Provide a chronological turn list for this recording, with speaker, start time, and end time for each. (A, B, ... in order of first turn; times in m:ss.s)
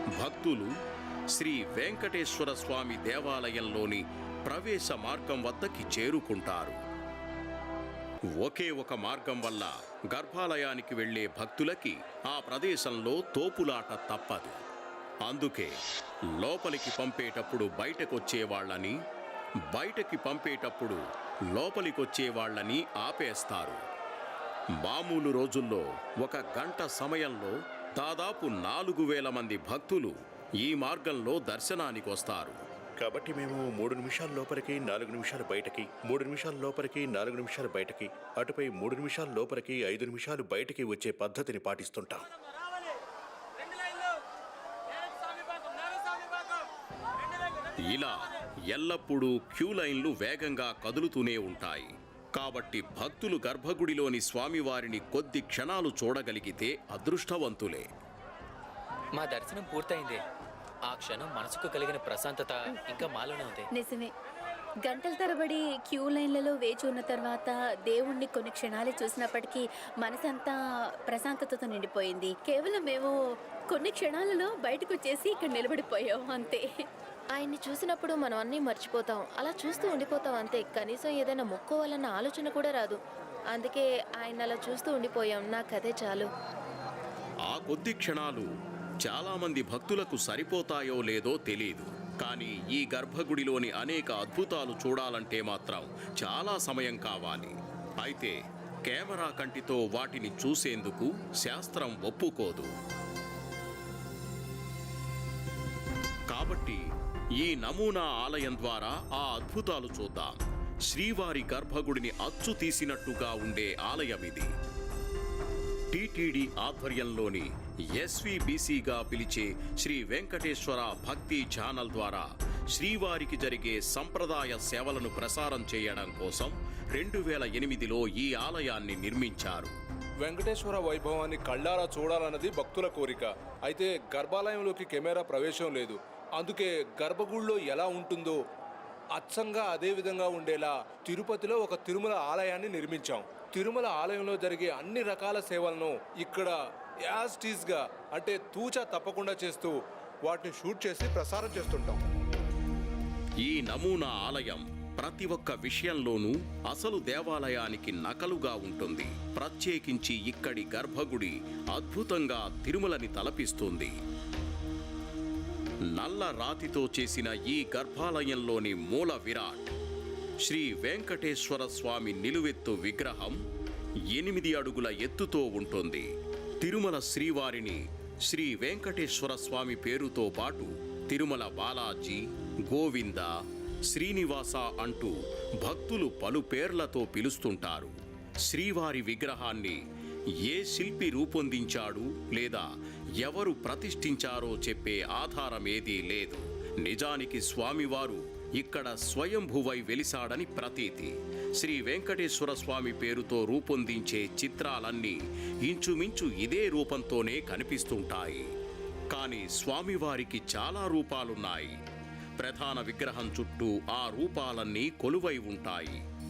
0:00.2-0:00.7 A
0:01.3-0:06.8 A
0:08.4-0:14.6 A
0:15.2-0:15.7 A
0:16.4-0:19.0 A
0:19.7-0:21.0 A
0:21.5-0:23.8 A
0:24.8-0:32.6 A
0:33.0-0:42.2 B
0:47.8-0:57.9 A
0:59.1-1:00.2 C
1:00.8-1:03.6 C
1:03.7-1:04.1 D
1:04.8-1:13.1 D
1:13.7-1:16.7 D
1:17.3-1:23.0 E
1:23.5-1:26.3 E
1:27.5-1:28.5 A
1:29.0-1:42.7 A
1:46.3-1:46.8 A
1:47.4-1:54.5 A
1:55.9-2:09.7 A
2:10.2-2:18.4 F
2:19.1-2:26.5 F
2:27.1-2:32.0 F
2:33.4-2:43.9 A
2:45.9-2:49.7 A
2:50.4-2:53.4 A
2:54.1-2:56.1 A
2:56.6-3:03.3 A
3:03.9-3:07.9 A
3:08.5-3:09.8 A
3:10.4-3:12.6 A
3:13.2-3:28.5 A
3:29.1-3:31.8 A
3:32.4-3:36.0 A